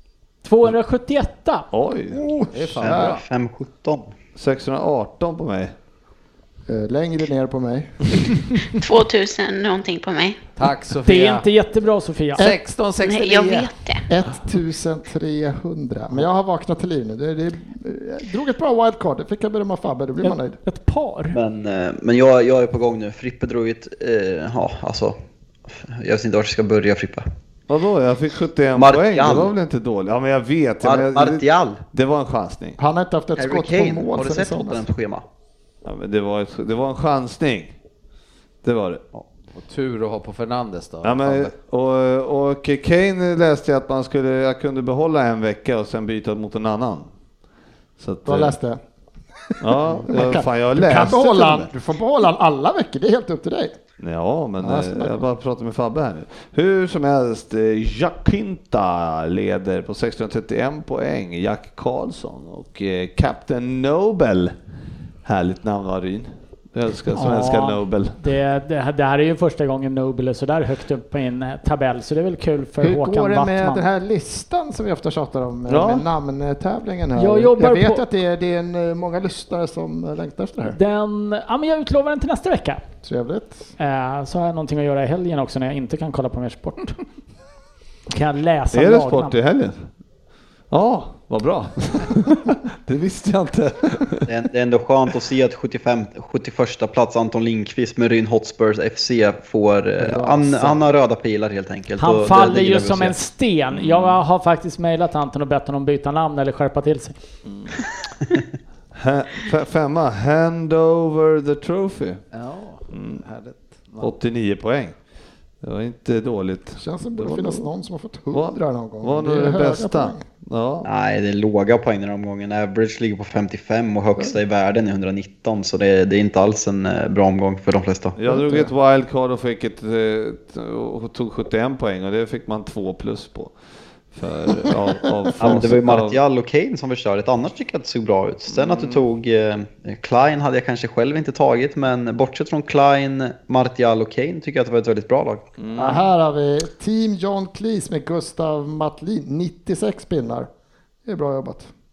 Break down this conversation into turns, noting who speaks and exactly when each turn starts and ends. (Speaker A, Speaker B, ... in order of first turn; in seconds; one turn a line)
Speaker A: 0.4-1.7
Speaker B: 1.7-2.2
Speaker C: 2.1-3.2
Speaker D: 2.5-3.2
Speaker E: 2.9-4.1
Speaker B: 4.3-5.8
Speaker C: 6.7-8.6
Speaker F: 8.8-10.4
Speaker D: 10.6-11.5
Speaker A: 11.1-12.5
Speaker D: 12.4-13.7
Speaker F: 13.0-14.0
Speaker C: 14.1-20.6
Speaker A: 20.2-21.4
Speaker E: 21.3-25.2
Speaker E: 25.7-27.3
Speaker B: 27.7-32.8
Speaker E: 28.8-29.5
Speaker E: 30.8-31.8
Speaker C: 32.8-34.9
Speaker E: 33.4-35.2
Speaker B: 35.8-37.8
Speaker B: 38.6-39.0
Speaker D: 39.5-41.5
Speaker B: 41.0-47.1
Speaker B: 48.0-48.5
Speaker C: 48.2-48.8
Speaker C: 49.5-53.8
Speaker B: 49.6-51.7
Speaker B: 54.0-64.6
Speaker C: 54.6-55.2
Speaker B: 65.2-68.2
Speaker A: 67.1-73.9
Speaker C: 72.8-80.8
Speaker B: 75.7-76.1
Speaker A: 77.2-78.0
Speaker A: 80.7-82.8
Speaker C: 83.0-83.7
Speaker A: 83.8-87.0
Speaker A: 88.1-89.4
Speaker B: 88.7-89.9
Speaker B: 90.7-94.3
Speaker E: 94.3-103.2
Speaker C: 100.0-100.8
Speaker A: 102.0-107.2
Speaker B: 108.9-112.2
Speaker D: 112.3-114.1
Speaker B: 112.9-113.2
Speaker B: 114.0-115.0
Speaker B: 115.6-117.7
Speaker C: 116.8-120.2
Speaker B: 118.3-120.9
Speaker E: 120.8-128.2
Speaker B: 128.2-133.6
Speaker C: 128.2-128.7
Speaker B: 134.1-136.2
Speaker E: 135.4-145.4
Speaker B: 138.5-139.0
Speaker B: 145.6-146.1
Speaker C: 145.8-150.5
Speaker C: 151.1-151.7